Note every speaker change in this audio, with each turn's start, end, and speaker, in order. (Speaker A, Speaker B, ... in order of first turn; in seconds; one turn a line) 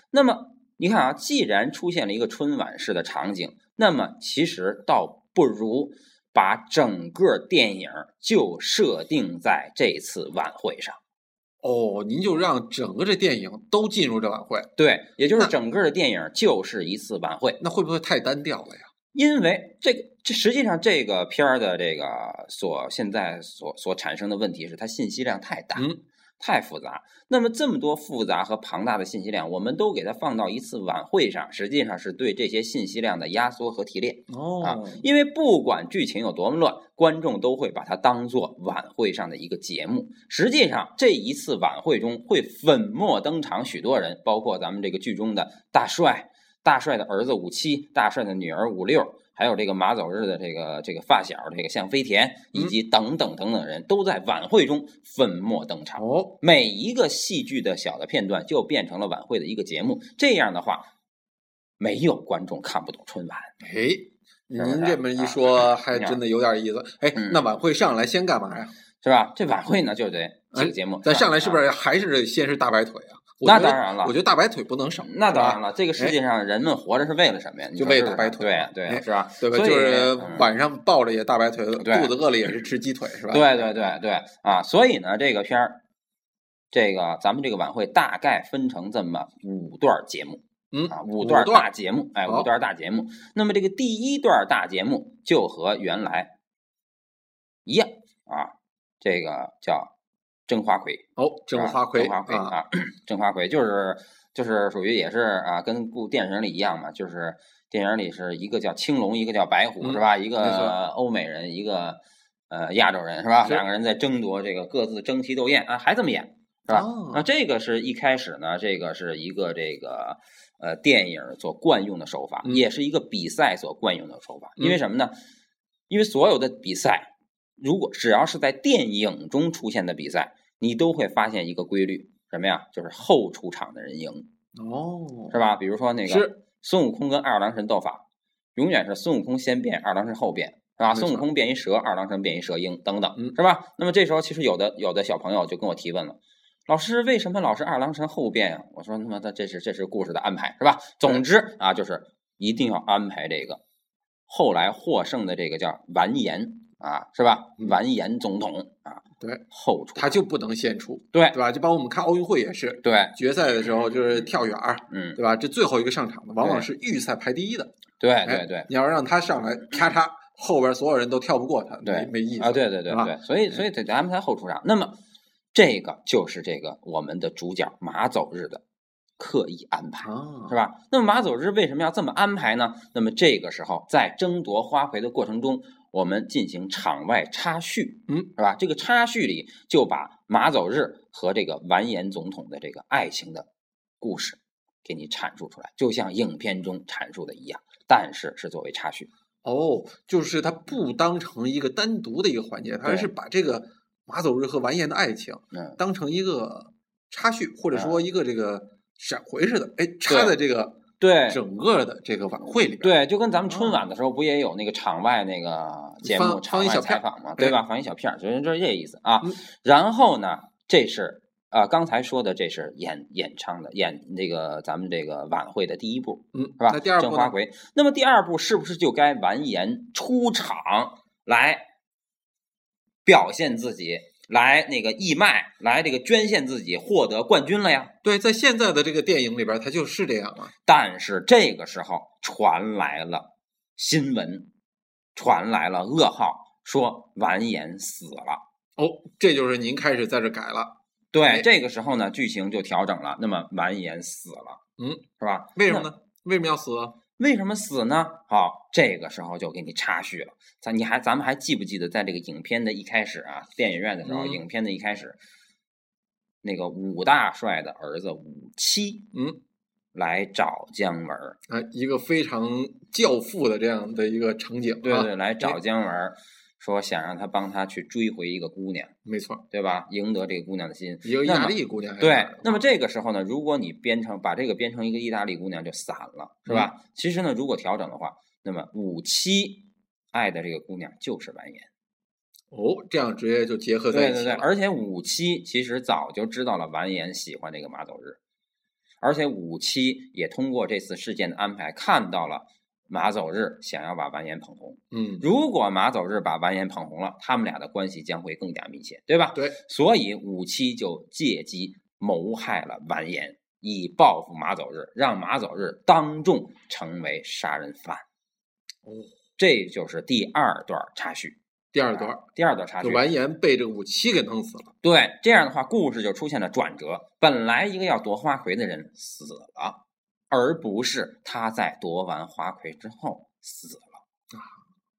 Speaker A: 0.1-11.0
Speaker B: 11.6-14.7
Speaker A: 14.8-17.6
Speaker B: 17.6-18.9
Speaker A: 19.1-60.9
Speaker B: 25.7-26.0
Speaker B: 34.3-35.0
Speaker B: 56.0-56.4
Speaker A: 61.8-63.5
Speaker B: 63.6-68.7
Speaker A: 64.6-66.2
Speaker A: 67.1-67.4
Speaker A: 69.0-71.6
Speaker B: 70.5-76.2
Speaker A: 73.4-74.2
Speaker A: 75.0-80.5
Speaker B: 77.8-83.7
Speaker A: 81.8-82.1
Speaker A: 83.3-85.8
Speaker A: 86.7-96.3
Speaker B: 90.7-91.7
Speaker A: 97.6-99.9
Speaker A: 100.5-125.1
Speaker B: 101.2-102.5
Speaker B: 109.8-110.7
Speaker B: 116.7-117.2
Speaker A: 125.9-134.3
Speaker B: 134.5-135.4
Speaker A: 135.3-138.0
Speaker B: 136.0-136.3
Speaker A: 138.6-153.6
Speaker B: 140.9-141.2
Speaker A: 154.3-160.2
Speaker B: 159.2-159.4
Speaker B: 159.9-167.7
Speaker A: 161.1-161.4
Speaker A: 162.8-163.2
Speaker A: 164.9-165.2
Speaker A: 166.4-166.7
Speaker A: 168.0-168.7
Speaker B: 168.2-173.2
Speaker A: 171.8-175.0
Speaker A: 175.5-178.6
Speaker A: 179.2-193.5
Speaker B: 180.0-180.6
Speaker A: 194.0-199.1
Speaker B: 199.4-213.0
Speaker A: 202.8-203.1
Speaker A: 207.7-208.0
Speaker A: 210.1-210.3
Speaker A: 211.0-211.4
Speaker A: 212.7-231.7
Speaker B: 213.5-213.8
Speaker B: 216.0-217.6
Speaker B: 226.3-227.3
Speaker A: 233.0-237.9
Speaker B: 238.0-240.5
Speaker A: 240.6-244.5
Speaker A: 245.1-248.4
Speaker B: 248.8-250.7
Speaker A: 251.1-254.6
Speaker B: 254.8-257.0
Speaker A: 255.2-255.9
Speaker A: 257.2-265.2
Speaker B: 264.0-264.4
Speaker A: 266.4-269.1
Speaker B: 269.1-269.4
Speaker A: 269.9-271.4
Speaker B: 271.5-275.6
Speaker A: 274.8-278.9
Speaker B: 279.1-279.4
Speaker A: 279.5-291.7
Speaker B: 281.0-282.6
Speaker B: 292.5-294.5
Speaker A: 293.9-298.2
Speaker A: 299.0-318.0
Speaker B: 304.9-305.2
Speaker B: 318.9-319.1
Speaker A: 319.4-321.4
Speaker B: 321.7-322.2
Speaker A: 321.9-323.1
Speaker B: 322.8-324.7
Speaker A: 324.8-329.8
Speaker A: 330.3-334.0